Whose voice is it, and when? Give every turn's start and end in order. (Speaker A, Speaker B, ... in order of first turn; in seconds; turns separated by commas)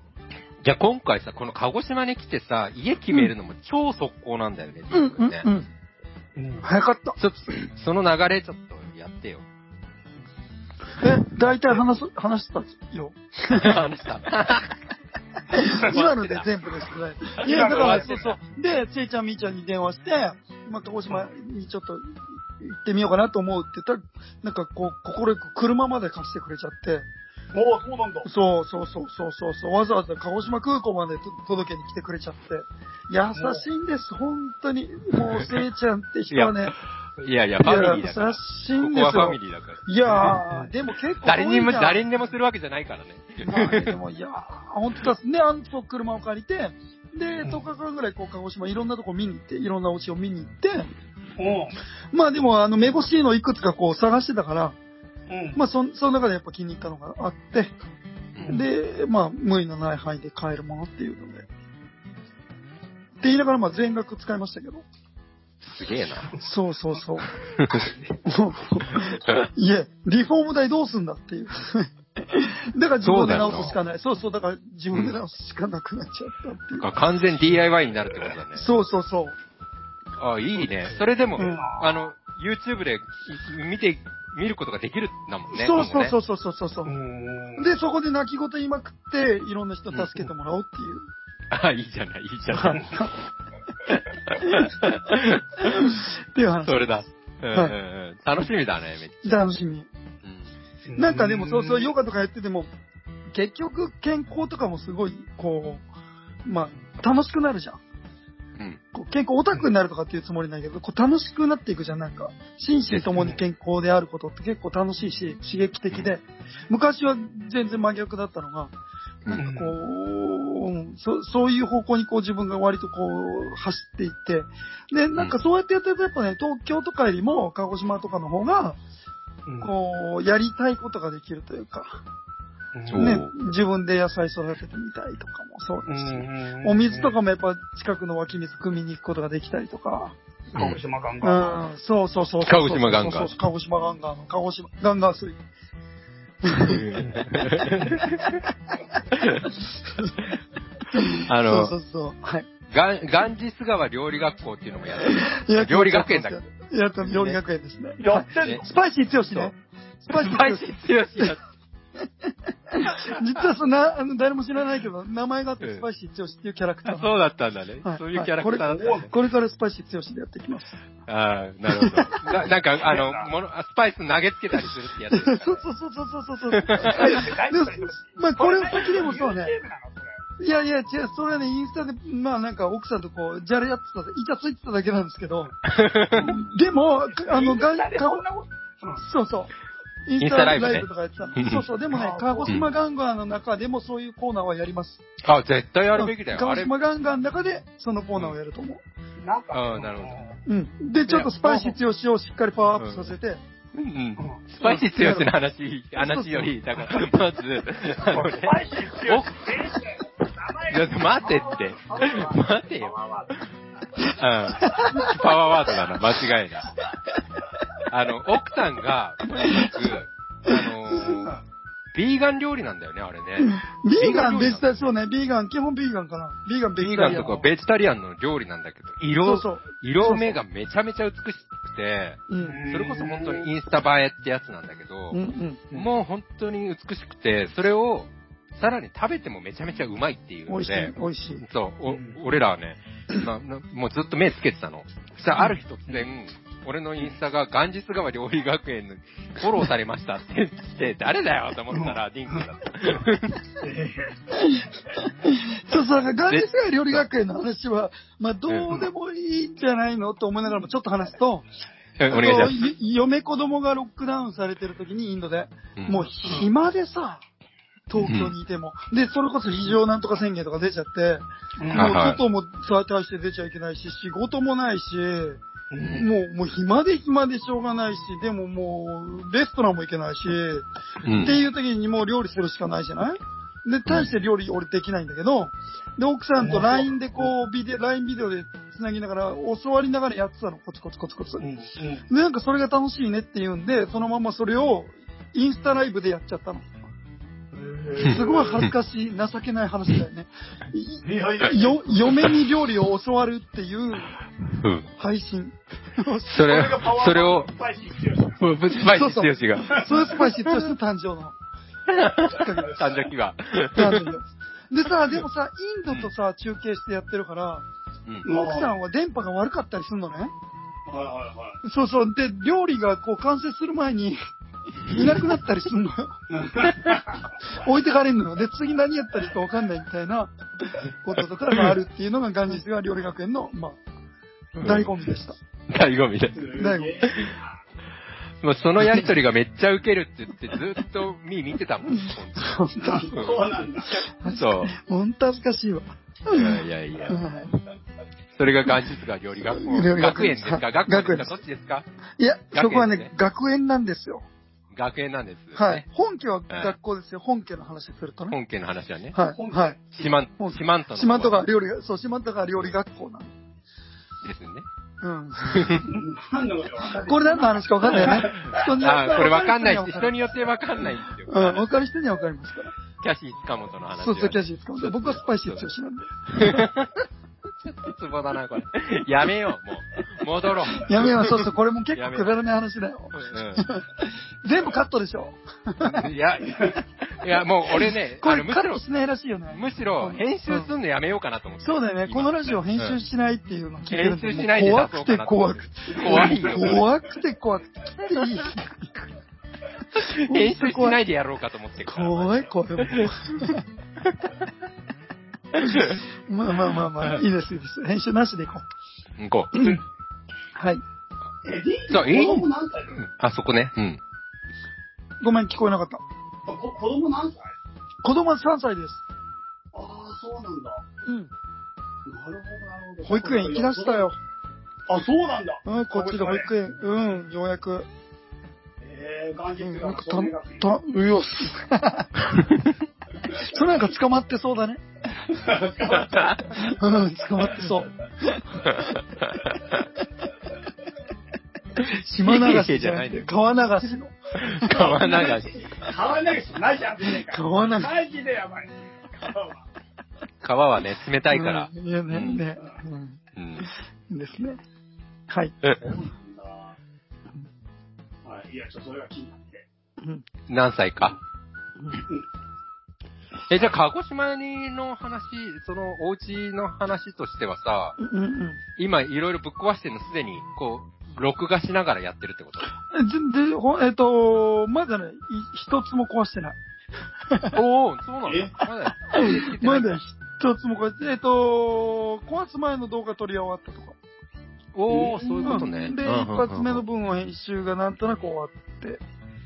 Speaker A: 0.6-5.5, Speaker B: 4.9-5.7, Speaker C: 6.3-6.6, Speaker B: 6.6-7.2, Speaker A: 7.2-9.4, Speaker B: 11.0-13.8, Speaker A: 13.5-14.7, Speaker B: 15.5-27.1, Speaker A: 15.6-16.5, Speaker C: 17.4-18.3, Speaker A: 17.4-18.3, Speaker C: 27.5-28.3, Speaker B: 28.2-36.8, Speaker C: 33.3-33.6, Speaker A: 36.3-40.4, Speaker B: 37.6-42.0, Speaker A: 41.2-44.0, Speaker B: 43.4-50.9, Speaker C: 51.4-51.7, Speaker B: 52.1-54.8, Speaker C: 55.3-55.6, Speaker B: 55.5-57.7, Speaker C: 58.4-58.6, Speaker B: 58.5-61.5, Speaker B: 63.2-64.8, Speaker A: 65.6-66.3, Speaker B: 66.4-67.3, Speaker A: 67.6-67.9, Speaker B: 68.2-76.9, Speaker A: 73.0-73.8, Speaker A: 76.8-78.7, Speaker B: 78.5-79.3, Speaker A: 80.2-86.1, Speaker C: 81.3-82.0, Speaker B: 81.4-81.7, Speaker B: 85.5-86.9, Speaker C: 86.8-87.7, Speaker B: 87.6-91.1, Speaker A: 89.9-90.2, Speaker A: 91.5-92.8, Speaker B: 92.5-93.1, Speaker A: 93.8-95.9, Speaker B: 94.4-94.8, Speaker B: 95.6-96.9, Speaker A: 96.6-99.3, Speaker B: 99.2-99.9, Speaker A: 100.2-100.5, Speaker C: 100.8-101.9, Speaker B: 101.0-102.7, Speaker B: 103.3-105.8, Speaker B: 106.4-107.8, Speaker B: 108.9-118.7, Speaker A: 112.9-113.1, Speaker C: 113.2-113.4, Speaker B: 119.3-128.8, Speaker C: 119.3-119.8, Speaker C: 129.4-129.7, Speaker B: 129.6-132.0, Speaker C: 132.7-133.1, Speaker A: 132.9-133.3, Speaker B: 133.0-140.2, Speaker C: 135.9-137.2, Speaker C: 140.5-141.7, Speaker A: 140.5-140.8, Speaker B: 141.2-145.4, Speaker A: 142.4-143.3, Speaker B: 146.4-150.2, Speaker A: 146.6-148.4, Speaker A: 149.1-149.6, Speaker B: 150.9-152.5, Speaker A: 151.1-151.8, Speaker A: 152.7-156.4, Speaker B: 155.0-160.6, Speaker A: 157.0-157.4, Speaker C: 158.0-158.7, Speaker A: 160.1-161.4, Speaker B: 162.0-167.1, Speaker A: 166.9-169.1, Speaker B: 167.8-170.8, Speaker C: 168.6-169.1, Speaker A: 171.1-175.6, Speaker B: 171.7-172.4, Speaker C: 172.8-173.3, Speaker B: 175.1-179.5, Speaker A: 176.5-177.1, Speaker C: 176.9-180.2, Speaker B: 180.4-185.6, Speaker A: 185.6-186.3, Speaker C: 186.2-186.5, Speaker B: 186.2-188.2, Speaker C: 187.1-189.0, Speaker B: 189.0-189.5, Speaker B: 190.1-195.0, Speaker A: 190.2-191.6, Speaker C: 191.9-192.7, Speaker A: 195.2-196.7, Speaker B: 195.9-198.8, Speaker C: 199.2-200.4, Speaker A: 199.5-200.2, Speaker B: 200.4-203.4, Speaker C: 201.2-201.7, Speaker A: 202.8-203.1, Speaker A: 203.7-209.4, Speaker B: 204.6-205.3, Speaker B: 206.0-206.5, Speaker C: 208.0-213.4, Speaker A: 210.7-212.9, Speaker A: 214.0-216.7, Speaker B: 214.6-215.2, Speaker A: 217.9-221.4, Speaker B: 219.5-219.7, Speaker C: 221.0-221.3, Speaker A: 221.9-224.8, Speaker B: 223.4-227.4, Speaker A: 226.8-235.2, Speaker B: 229.2-230.4, Speaker B: 232.3-232.6, Speaker C: 232.4-233.5, Speaker B: 235.1-235.6, Speaker A: 235.7-253.4, Speaker B: 240.5-241.4, Speaker C: 241.8-242.2, Speaker C: 251.7-252.4, Speaker C: 253.6-254.2, Speaker B: 254.3-261.5, Speaker A: 256.2-257.0, Speaker A: 258.5-258.7, Speaker A: 262.0-262.7, Speaker B: 262.1-267.2, Speaker A: 265.8-266.0, Speaker B: 267.9-275.4, Speaker A: 268.0-268.3, Speaker C: 271.6-271.9, Speaker A: 271.7-272.2, Speaker C: 275.7-276.1, Speaker A: 275.8-276.1, Speaker B: 275.9-291.4, Speaker A: 281.0-281.4, Speaker C: 286.4-287.3, Speaker C: 291.4-292.1, Speaker B: 292.1-296.6, Speaker C: 297.5-298.6, Speaker B: 298.0-304.1, Speaker A: 298.0-298.7, Speaker C: 301.0-302.2, Speaker A: 304.4-304.9, Speaker B: 305.0-306.6, Speaker A: 306.3-307.5, Speaker C: 306.4-308.4, Speaker A: 308.4-310.5, Speaker B: 308.9-311.4, Speaker A: 311.9-314.1, Speaker B: 312.2-312.8, Speaker C: 312.6-312.9, Speaker B: 313.7-317.6, Speaker C: 318.2-318.7, Speaker B: 318.3-320.3, Speaker C: 320.9-321.6, Speaker B: 321.6-324.2, Speaker B: 324.9-326.2, Speaker C: 326.3-327.2, Speaker B: 327.5-333.8, Speaker A: 334.6-334.9, Speaker B: 334.6-335.4, Speaker A: 335.7-337.3, Speaker C: 336.3-337.6, Speaker B: 336.5-336.9, Speaker A: 338.4-343.5, Speaker B: 342.4-343.1, Speaker C: 342.8-343.9, Speaker B: 344.0-347.5, Speaker A: 344.2-344.7, Speaker A: 346.3-347.2, Speaker A: 348.3-351.9, Speaker B: 349.5-351.4, Speaker B: 352.2-354.2, Speaker A: 352.5-353.1, Speaker A: 354.7-355.8, Speaker B: 355.5-358.4, Speaker A: 356.5-356.7, Speaker A: 358.3-359.1, Speaker B: 359.1-359.8, Speaker C: 359.3-359.7, Speaker A: 359.9-361.4, Speaker B: 360.4-363.3, Speaker A: 364.2-364.6, Speaker B: 365.0-365.9, Speaker A: 365.4-365.9, Speaker C: 365.9-368.7, Speaker B: 366.9-370.1, Speaker A: 368.0-371.6, Speaker B: 371.2-372.7, Speaker A: 373.0-375.6, Speaker B: 373.9-376.7, Speaker A: 376.3-376.9, Speaker A: 377.6-382.3, Speaker B: 380.7-386.1, Speaker A: 383.1-383.7, Speaker A: 385.8-388.8, Speaker C: 386.5-386.8, Speaker B: 387.7-390.7, Speaker A: 389.5-392.9, Speaker B: 391.6-399.0, Speaker A: 393.9-396.9, Speaker C: 396.0-396.7, Speaker A: 399.9-403.5, Speaker B: 399.9-401.0, Speaker B: 401.9-403.6, Speaker A: 404.0-404.3, Speaker A: 405.5-406.0, Speaker B: 405.6-408.6, Speaker A: 409.2-409.6, Speaker B: 409.5-409.8, Speaker B: 410.5-410.8, Speaker C: 411.4-413.0, Speaker A: 411.9-414.0, Speaker B: 415.2-416.0, Speaker C: 416.4-417.5, Speaker B: 418.0-419.0, Speaker C: 419.7-420.8, Speaker B: 421.1-421.3, Speaker C: 422.0-424.1, Speaker B: 423.0-424.2, Speaker C: 424.9-426.5, Speaker B: 425.6-427.9, Speaker C: 428.8-430.7, Speaker B: 429.6-432.3, Speaker A: 432.3-432.7, Speaker B: 433.3-434.8, Speaker C: 435.3-436.6, Speaker A: 435.9-436.6, Speaker B: 436.6-438.9, Speaker A: 438.6-439.8, Speaker B: 441.8-445.1, Speaker A: 442.2-443.3, Speaker A: 444.4-445.6, Speaker C: 444.7-449.6, Speaker B: 447.3-447.9, Speaker A: 450.4-452.4, Speaker B: 451.3-454.6, Speaker A: 453.3-453.7, Speaker C: 455.8-456.8, Speaker C: 458.2-459.6, Speaker A: 460.5-461.2, Speaker A: 463.5-468.0, Speaker B: 468.0-468.6, Speaker A: 468.8-472.7, Speaker B: 472.9-476.6, Speaker B: 477.3-477.6, Speaker A: 477.5-480.0, Speaker C: 478.2-478.6, Speaker B: 479.1-484.0, Speaker A: 484.7-486.8, Speaker C: 484.9-485.7, Speaker B: 485.4-489.0